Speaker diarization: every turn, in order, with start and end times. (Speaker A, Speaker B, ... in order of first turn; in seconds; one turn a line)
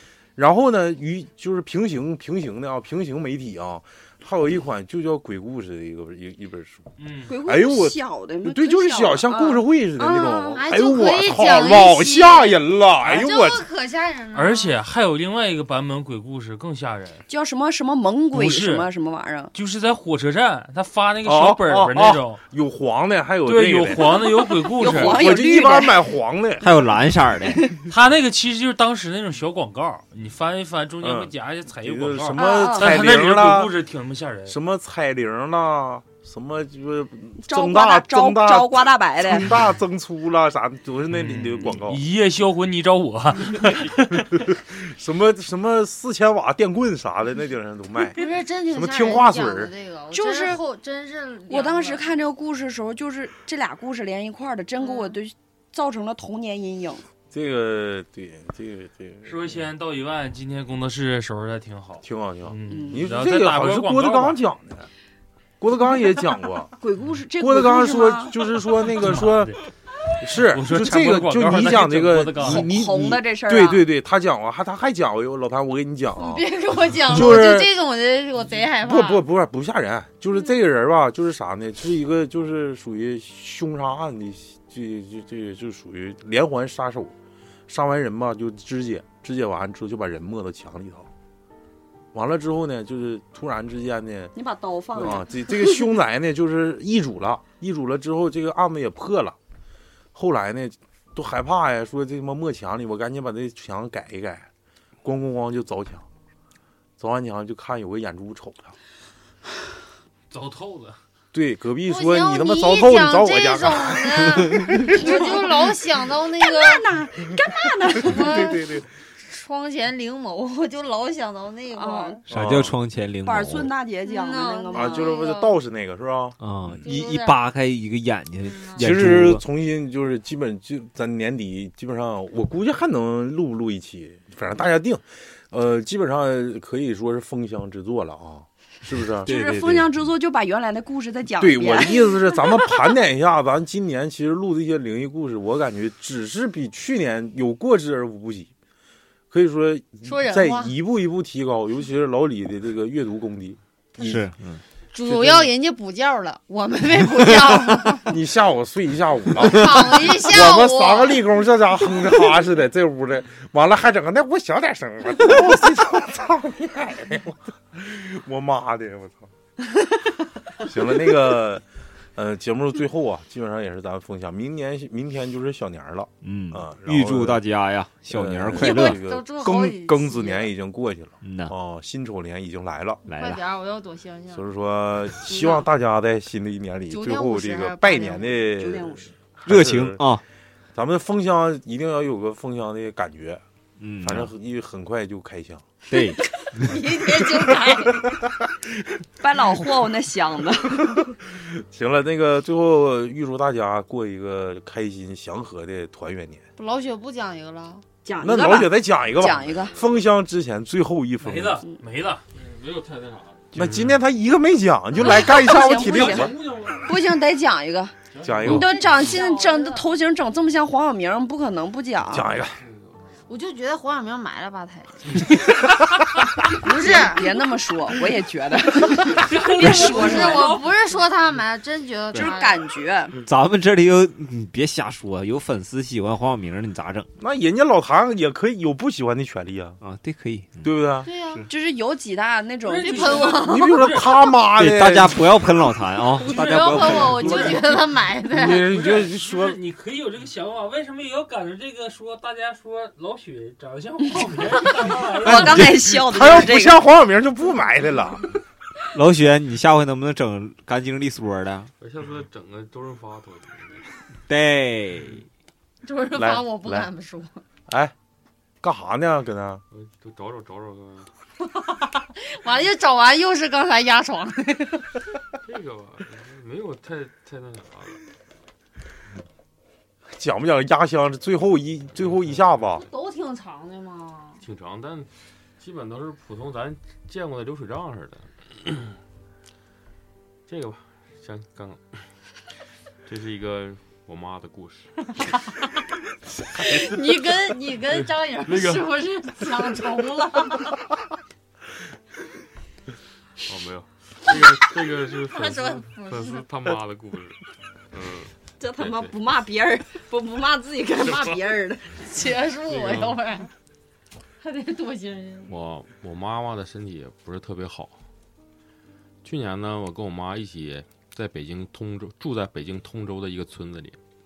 Speaker A: 0.4-6.9
Speaker B: 7.0-7.3
Speaker C: 7.3-10.7
Speaker A: 7.4-13.7
Speaker D: 10.6-14.8
Speaker B: 14.3-17.2
Speaker C: 17.3-19.5
Speaker B: 18.3-18.9
Speaker B: 19.5-22.4
Speaker A: 21.2-24.2
Speaker B: 23.4-25.3
Speaker C: 24.6-26.1
Speaker A: 24.8-26.8
Speaker E: 26.6-27.7
Speaker B: 27.9-34.6
Speaker A: 31.0-33.8
Speaker C: 32.4-33.1
Speaker A: 34.5-42.0
Speaker C: 37.4-39.5
Speaker B: 41.1-44.2
Speaker A: 44.5-49.7
Speaker D: 48.2-52.1
Speaker C: 50.1-50.6
Speaker C: 51.5-57.0
Speaker D: 54.8-55.2
Speaker A: 57.3-59.6
Speaker B: 59.2-64.4
Speaker A: 62.0-64.9
Speaker C: 62.7-63.1
Speaker A: 65.6-66.7
Speaker C: 66.8-68.4
Speaker A: 67.4-69.5
Speaker B: 69.0-69.6
Speaker A: 70.2-77.7
Speaker B: 70.4-72.8
Speaker C: 72.4-73.8
Speaker D: 76.2-79.2
Speaker A: 78.7-87.2
Speaker A: 87.7-91.1
Speaker A: 92.1-94.3
Speaker C: 94.3-95.3
Speaker A: 95.0-99.4
Speaker A: 100.1-104.5
Speaker A: 105.0-106.1
Speaker A: 107.0-108.8
Speaker B: 110.3-111.0
Speaker A: 111.3-115.0
Speaker D: 111.8-117.0
Speaker C: 114.9-115.3
Speaker C: 116.4-118.6
Speaker D: 118.0-122.3
Speaker A: 118.1-118.9
Speaker C: 121.7-122.2
Speaker E: 122.3-123.7
Speaker A: 122.3-122.7
Speaker C: 123.2-125.2
Speaker D: 124.0-125.6
Speaker A: 124.7-126.9
Speaker E: 126.4-129.4
Speaker D: 126.8-127.4
Speaker D: 128.5-129.1
Speaker A: 128.8-139.3
Speaker C: 139.2-142.3
Speaker E: 139.3-139.9
Speaker A: 141.4-148.5
Speaker A: 149.3-154.2
Speaker D: 150.0-150.7
Speaker E: 154.0-154.6
Speaker D: 154.9-158.1
Speaker A: 155.1-155.5
Speaker A: 158.1-169.3
Speaker D: 159.4-161.2
Speaker A: 170.6-171.6
Speaker A: 172.2-177.4
Speaker E: 176.2-179.0
Speaker A: 178.1-183.0
Speaker D: 178.5-180.5
Speaker E: 181.2-181.5
Speaker E: 183.1-183.4
Speaker D: 183.1-184.5
Speaker A: 184.3-190.0
Speaker D: 185.3-185.7
Speaker D: 186.9-188.4
Speaker C: 188.6-189.1
Speaker E: 189.5-190.2
Speaker A: 190.8-193.4
Speaker E: 193.8-194.3
Speaker A: 194.0-195.6
Speaker E: 195.9-196.9
Speaker D: 196.6-198.2
Speaker C: 199.2-201.0
Speaker A: 200.8-206.4
Speaker D: 206.6-207.8
Speaker C: 208.1-209.8
Speaker A: 208.2-211.6
Speaker B: 211.2-212.4
Speaker F: 212.3-214.0
Speaker A: 213.5-216.4
Speaker D: 215.0-216.3
Speaker C: 215.0-216.3
Speaker B: 215.7-216.9
Speaker C: 216.8-222.3
Speaker A: 218.2-218.9
Speaker B: 218.3-218.6
Speaker D: 218.5-219.9
Speaker A: 222.1-222.6
Speaker F: 222.6-222.9
Speaker D: 223.3-225.4
Speaker D: 226.5-227.3
Speaker C: 226.6-230.6
Speaker B: 229.3-230.7
Speaker D: 229.6-232.6
Speaker C: 232.1-233.2
Speaker E: 233.2-237.1
Speaker A: 237.2-239.8
Speaker E: 239.8-240.7
Speaker A: 240.6-241.1
Speaker D: 241.1-241.4
Speaker C: 241.5-243.3
Speaker B: 242.7-244.1
Speaker D: 242.8-243.9
Speaker A: 243.4-245.5
Speaker E: 244.5-247.6
Speaker D: 246.2-248.7
Speaker B: 246.6-247.7
Speaker A: 246.8-249.6
Speaker B: 248.7-255.8
Speaker C: 255.2-256.8
Speaker A: 255.2-258.3
Speaker E: 258.9-261.7
Speaker F: 261.8-263.9
Speaker E: 264.3-265.3
Speaker D: 265.8-267.4
Speaker A: 266.2-266.9
Speaker A: 267.7-267.9
Speaker A: 268.6-269.6
Speaker F: 269.7-271.1
Speaker D: 271.4-275.0
Speaker F: 275.4-278.0
Speaker A: 280.1-282.9
Speaker D: 282.8-284.4
Speaker F: 284.4-289.0
Speaker F: 290.5-292.1
Speaker F: 293.1-294.9
Speaker D: 295.1-295.7
Speaker D: 296.6-300.8
Speaker F: 297.9-298.9
Speaker F: 303.4-309.1
Speaker D: 305.1-306.5
Speaker C: 308.6-311.9
Speaker F: 311.1-311.4
Speaker D: 311.9-313.5
Speaker F: 312.7-313.2
Speaker D: 314.4-315.5
Speaker F: 315.5-318.0
Speaker F: 319.2-324.0